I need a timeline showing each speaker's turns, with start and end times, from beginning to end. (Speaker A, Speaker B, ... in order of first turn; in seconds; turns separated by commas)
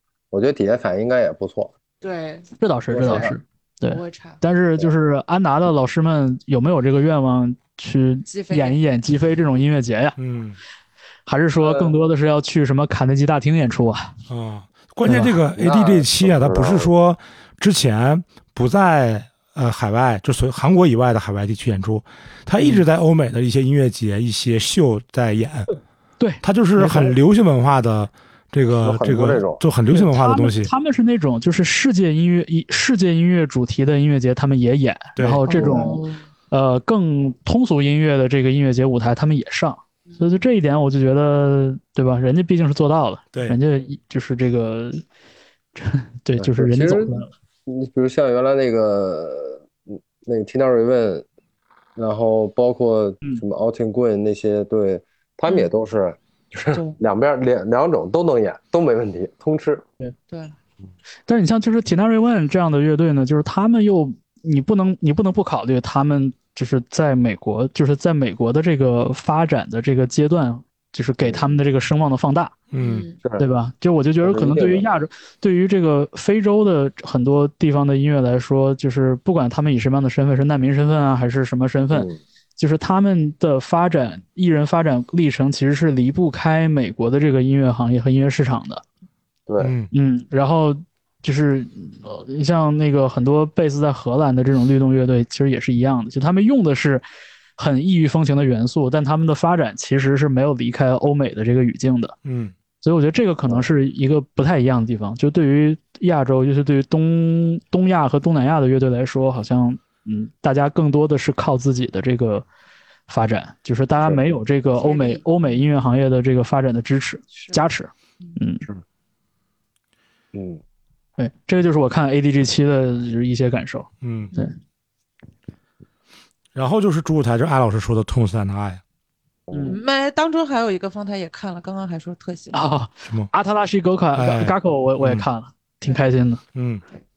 Speaker A: 0.3-1.7, Speaker B: 2.0-2.5, Speaker C: 2.6-10.2, Speaker A: 2.9-3.4, Speaker B: 3.8-4.4, Speaker B: 8.3-8.8, Speaker D: 10.2-10.6, Speaker C: 11.2-14.1, Speaker A: 11.6-11.9, Speaker D: 14.3-25.7, Speaker C: 15.0-15.4, Speaker A: 15.5-16.9, Speaker C: 22.6-22.8, Speaker C: 26.2-27.1, Speaker D: 26.4-30.7, Speaker A: 28.8-29.6, Speaker C: 29.9-45.0, Speaker D: 35.1-35.5, Speaker B: 35.5-36.2, Speaker A: 35.5-35.9, Speaker B: 40.0-40.5, Speaker C: 45.8-47.3, Speaker A: 46.4-49.7, Speaker A: 50.2-51.2, Speaker A: 52.0-59.8, Speaker B: 56.7-57.0, Speaker B: 60.3-60.5, Speaker C: 61.3-72.5, Speaker A: 71.2-71.6, Speaker D: 72.7-73.1, Speaker B: 72.8-73.2, Speaker C: 73.4-88.8, Speaker A: 74.2-74.9, Speaker A: 81.9-82.2, Speaker A: 89.5-89.7, Speaker D: 89.6-89.9, Speaker C: 89.9-97.0, Speaker C: 97.6-102.2, Speaker D: 102.2-102.5, Speaker C: 102.8-112.4, Speaker C: 113.1-118.6, Speaker B: 114.8-115.6, Speaker B: 117.3-117.6, Speaker A: 120.3-120.6, Speaker C: 121.2-124.5, Speaker D: 124.0-124.3, Speaker D: 126.5-128.8, Speaker A: 129.5-129.8, Speaker C: 129.5-129.8, Speaker B: 129.6-132.6, Speaker C: 132.5-136.4, Speaker D: 134.1-135.3, Speaker D: 136.5-136.8